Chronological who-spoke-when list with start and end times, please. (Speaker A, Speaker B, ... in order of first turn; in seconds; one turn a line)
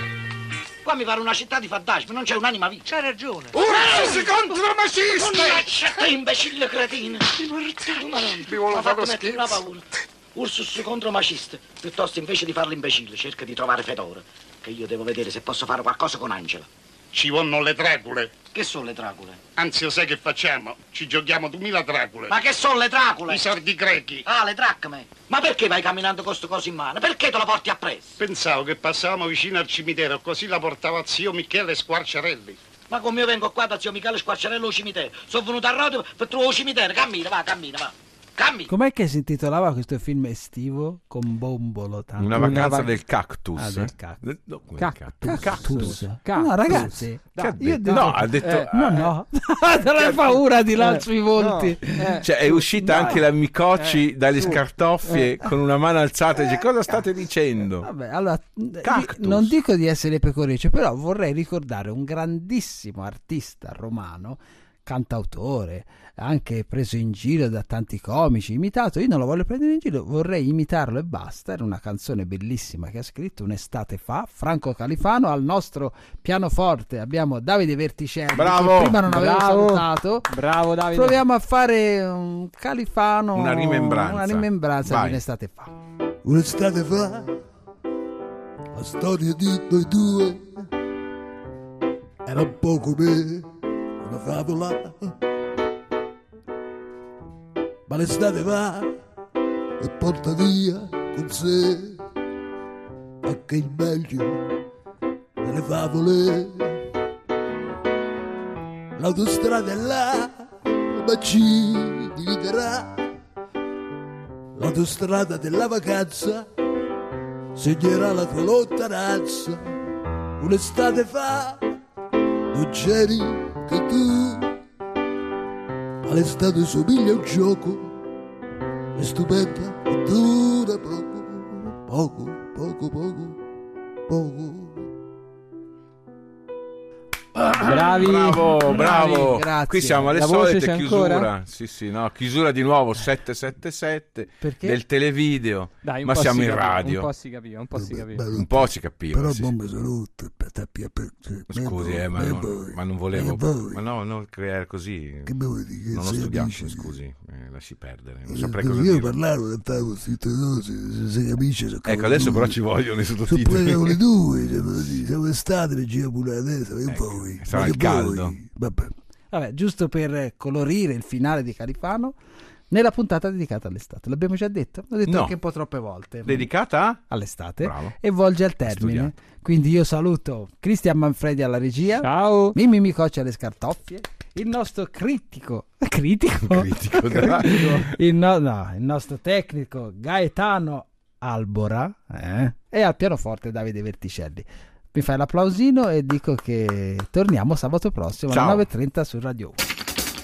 Speaker A: 0.8-4.5
Speaker A: 5.1-16.7
Speaker B: 17.1-18.3
Speaker A: 18.5-19.4
Speaker B: 19.6-22.2
Speaker A: 22.3-28.2
Speaker B: 23.4-24.2
Speaker B: 28.2-32.6
Speaker A: 32.9-38.7
Speaker C: 38.7-43.0
Speaker D: 42.2-45.4
Speaker E: 42.4-42.9
Speaker C: 43.6-44.2
Speaker E: 44.8-47.7
Speaker C: 45.2-53.2
Speaker F: 45.4-45.9
Speaker D: 46.7-49.1
Speaker E: 48.4-48.7
Speaker D: 49.9-50.4
Speaker E: 50.8-55.3
Speaker D: 52.2-57.9
Speaker C: 57.8-80.3
Speaker D: 58.8-59.5
Speaker D: 78.3-79.0
Speaker E: 79.0-81.2
Speaker C: 80.9-85.7
Speaker D: 83.3-85.2
Speaker F: 86.2-87.3
Speaker F: 88.7-90.7
Speaker F: 92.2-93.5
Speaker F: 94.0-95.2
Speaker F: 97.9-98.9
Speaker F: 99.8-102.0
Speaker F: 103.2-104.5
Speaker F: 105.4-106.8
Speaker F: 109.0-113.0
Speaker F: 114.6-116.5
Speaker F: 117.6-119.7
Speaker F: 120.4-121.6
Speaker F: 122.5-124.5
Speaker F: 126.0-127.9
Speaker F: 129.0-133.4
Speaker F: 134.1-134.9
Speaker C: 137.5-140.2
Speaker D: 137.6-147.1
Speaker E: 140.1-141.3
Speaker C: 144.4-144.8
Speaker E: 145.8-148.3
Speaker F: 147.7-153.8
Speaker D: 148.3-149.6
Speaker D: 151.5-155.4
Speaker F: 155.3-157.0
Speaker D: 155.9-159.2
Speaker F: 158.3-162.6
Speaker D: 161.8-164.0
Speaker F: 163.3-168.9
Speaker D: 166.9-168.4
Speaker C: 169.3-172.2
Speaker C: 172.7-176.5
Speaker D: 175.1-175.4
Speaker D: 176.2-177.0
Speaker C: 177.1-199.6
Speaker D: 177.6-177.9
Speaker D: 178.7-179.1
Speaker E: 182.0-182.6
Speaker D: 186.4-187.9
Speaker D: 198.3-198.7